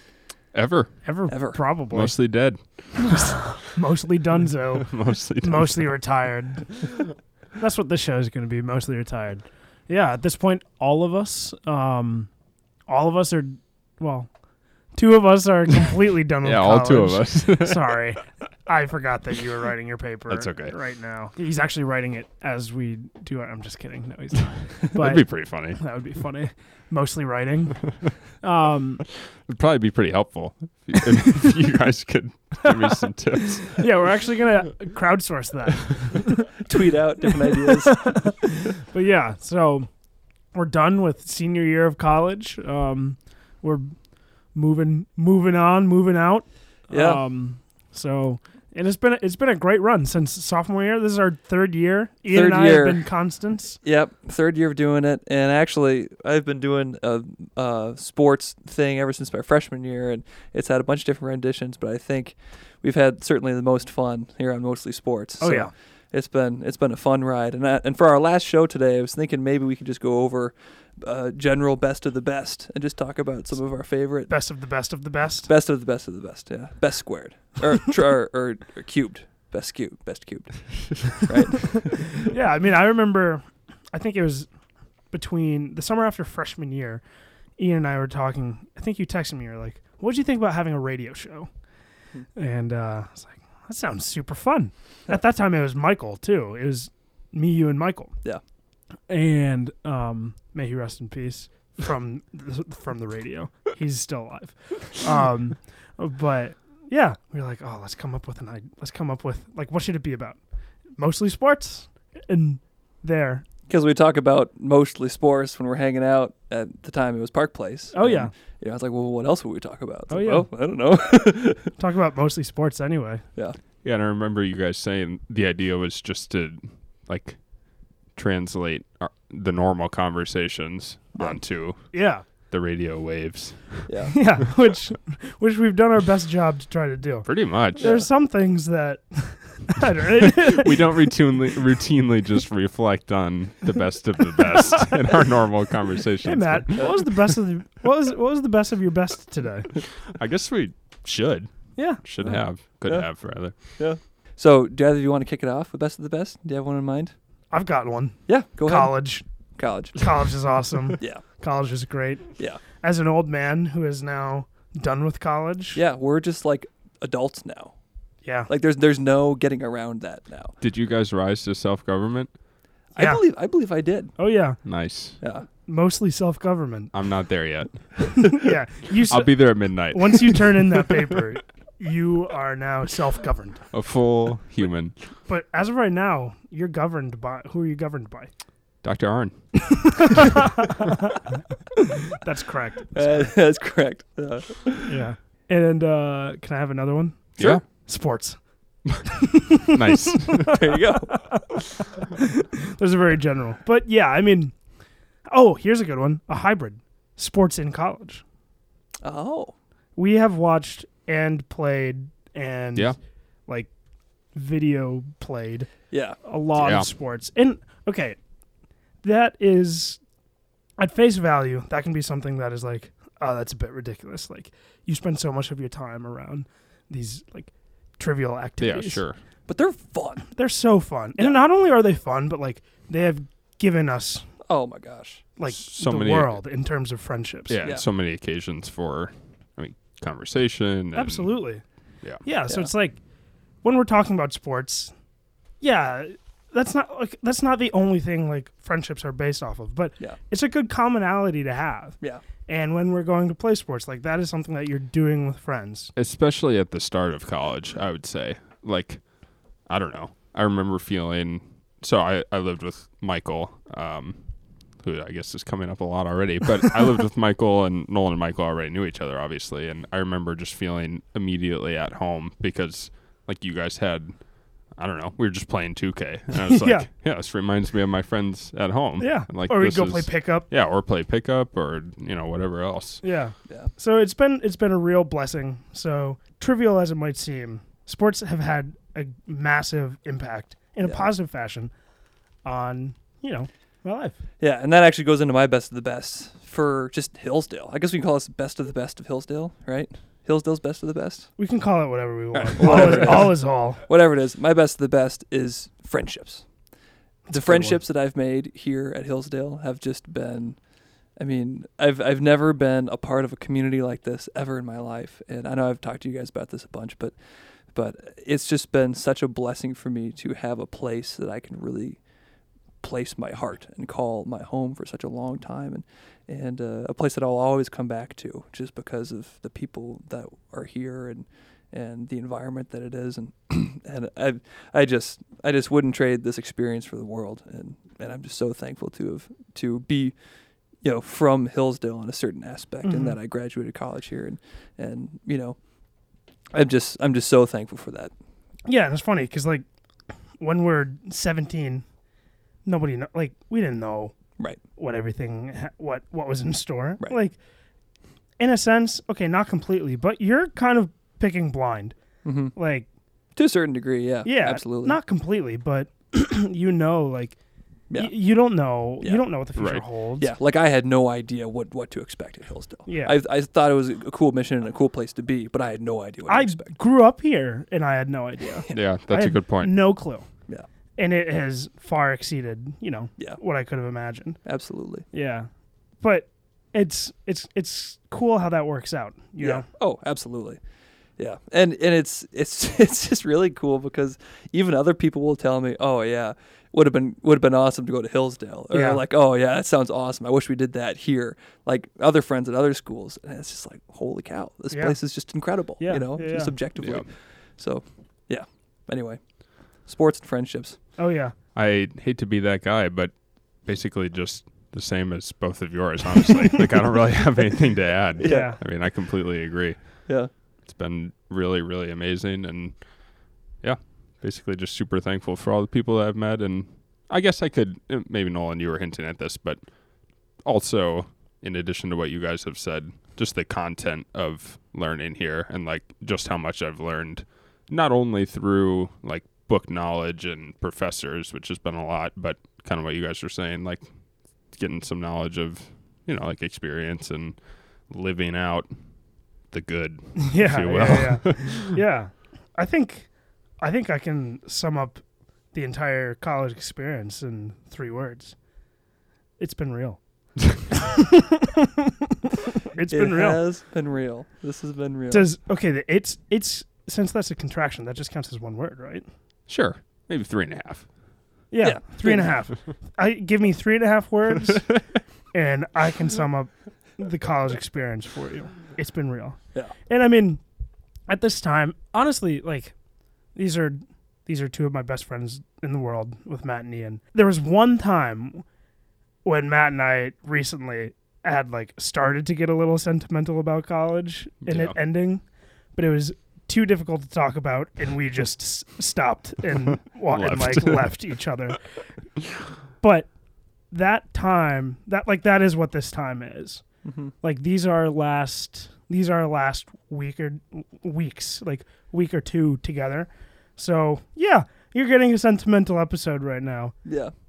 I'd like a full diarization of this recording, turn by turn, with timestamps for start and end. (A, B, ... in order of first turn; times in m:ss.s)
0:00.5-0:00.9 A
0:01.0-0:02.2 B
0:01.3-0:01.6 C
0:01.9-0:03.4 A
0:03.0-0:06.9 B
0:04.8-0:05.9 A
0:07.6-0:12.3 B
0:12.9-0:14.3 B
0:15.0-0:29.0 B
0:16.4-0:18.0 A
0:20.3-0:20.8 A
0:25.0-0:25.8 A
0:29.2-0:33.8 A
0:32.7-0:33.0 B
0:33.8-0:36.5 B
0:36.6-0:38.3 C
0:37.5-0:39.9 B
0:40.5-0:43.9 B
0:44.5-0:53.8 B
0:46.9-0:47.2 C
0:52.3-0:53.0 C
0:53.8-1:14.4 C
1:05.4-1:05.7 B
1:14.3-1:15.5 B
1:15.5-1:22.3 C
1:22.1-1:24.5 B
1:25.1-1:27.0 B
1:27.6-1:31.5 B
1:32.4-1:38.1 B
1:39.1-1:50.4 B
1:51.0-1:53.4 B
1:53.7-2:01.7 C
1:57.9-1:58.3 B
2:00.1-2:00.5 B
2:01.8-2:03.2 B
2:03.8-2:07.4 A
2:08.2-2:12.0 A
2:11.2-2:12.2 B
2:12.5-2:13.9 A
2:13.9-2:14.2 C
2:14.1-2:21.1 B
2:17.2-2:17.9 A
2:17.8-2:18.1 C
2:20.2-2:26.9 A
2:26.2-2:29.8 B
2:26.8-2:27.0 C
2:30.1-2:33.6 A
2:31.8-2:32.0 B
2:32.9-2:37.1 C
2:37.5-2:39.2 B
2:38.3-2:39.0 C
2:39.6-2:40.2 C
2:40.0-2:45.8 B
2:45.8-2:47.7 C
2:48.2-2:48.5 B
2:48.5-2:50.5 C
2:50.6-2:52.3 A
2:53.0-2:54.1 C
2:53.0-2:53.2 B
2:54.2-2:54.6 B
2:54.6-2:55.2 A
2:55.2-2:55.5 C
2:55.7-2:56.9 B
2:56.9-2:58.3 A
2:58.2-3:03.6 B
2:59.1-3:00.8 A
3:03.7-3:05.0 A
3:05.3-3:08.3 B
3:08.8-3:10.2 A
3:09.7-3:11.2 B
3:12.1-3:13.3 B
3:13.0-3:15.0 C
3:14.9-3:18.4 B
3:17.4-3:17.6 A
3:19.0-3:24.5 B
3:19.7-3:20.5 A
3:20.5-3:21.2 C
3:25.3-3:28.2 B
3:29.0-3:29.5 C
3:30.0-3:33.0 B
3:34.4-3:35.7 B
3:35.9-3:36.2 C
3:36.2-3:38.2 B
3:36.6-3:36.8 A
3:39.0-3:40.0 B
3:40.8-3:49.0 B
3:48.6-3:49.2 A
3:49.5-3:50.2 C
3:50.3-3:54.3 B
3:54.5-3:55.2 C
3:55.4-3:57.6 B
3:55.5-3:56.4 A
3:57.5-4:01.4 A
4:01.0-4:01.6 B
4:02.2-4:03.0 B
4:03.6-4:04.9 B
4:05.6-4:15.9 B
4:16.0-4:19.0 A
4:19.7-4:24.2 A
4:24.8-4:34.2 A
4:34.8-4:43.0 A
4:36.5-4:36.9 B
4:39.0-4:40.5 B
4:43.0-4:51.7 B
4:52.4-4:54.2 B
4:54.4-5:01.3 C
5:01.4-5:03.8 B
5:02.3-5:06.5 C
5:07.3-5:07.8 B
5:07.3-5:10.6 C
5:11.2-5:17.1 C
5:17.7-5:22.0 C
5:22.8-5:40.2 C
5:40.8-5:45.6 C
5:42.8-5:43.2 B
5:46.5-5:48.1 C
5:48.7-5:49.6 B
5:50.4-5:51.8 B
5:52.6-5:54.2 B
5:54.8-5:57.4 B
5:58.4-6:02.0 B
6:02.2-6:02.5 C
6:02.6-6:02.9 B
6:03.4-6:05.0 C
6:04.2-6:07.4 B
6:08.0-6:10.3 B
6:09.6-6:09.8 A
6:10.2-6:16.8 C
6:12.9-6:13.2 B
6:16.3-6:20.3 B
6:18.4-6:18.8 C
6:18.7-6:19.8 A
6:21.0-6:24.4 B
6:24.4-6:25.1 C
6:25.1-6:25.5 B
6:26.0-6:29.7 B
6:29.4-6:30.6 C
6:31.2-6:49.2 C
6:38.7-6:39.0 B
6:44.7-6:45.0 B
6:45.8-6:46.6 B
6:46.8-6:47.0 A
6:49.8-6:50.8 C
6:51.0-6:51.3 B
6:51.6-7:00.1 A
6:58.2-6:58.6 C
6:58.2-6:58.6 B
7:00.7-7:02.8 A
7:03.6-7:09.6 A
7:10.4-7:23.9 A
7:24.5-7:27.4 A
7:27.9-7:28.7 A
7:29.5-7:31.7 A
7:30.2-7:38.4 B
7:39.4-7:40.0 B
7:40.7-7:41.9 B
7:42.5-7:43.4 B
7:42.9-7:45.3 C
7:45.1-7:49.1 B
7:49.5-7:50.9 A
7:51.5-7:54.7 B
7:51.6-7:52.4 C
7:55.3-8:00.4 B
8:01.1-8:02.7 B
8:03.4-8:08.4 B
8:09.2-8:15.2 B
8:14.4-8:14.8 A
8:15.8-8:21.6 B
8:20.1-8:21.0 A
8:22.8-8:23.1 B
8:23.7-8:26.6 B
8:26.8-8:27.1 C
8:27.2-8:36.7 B
8:36.9-8:37.1 C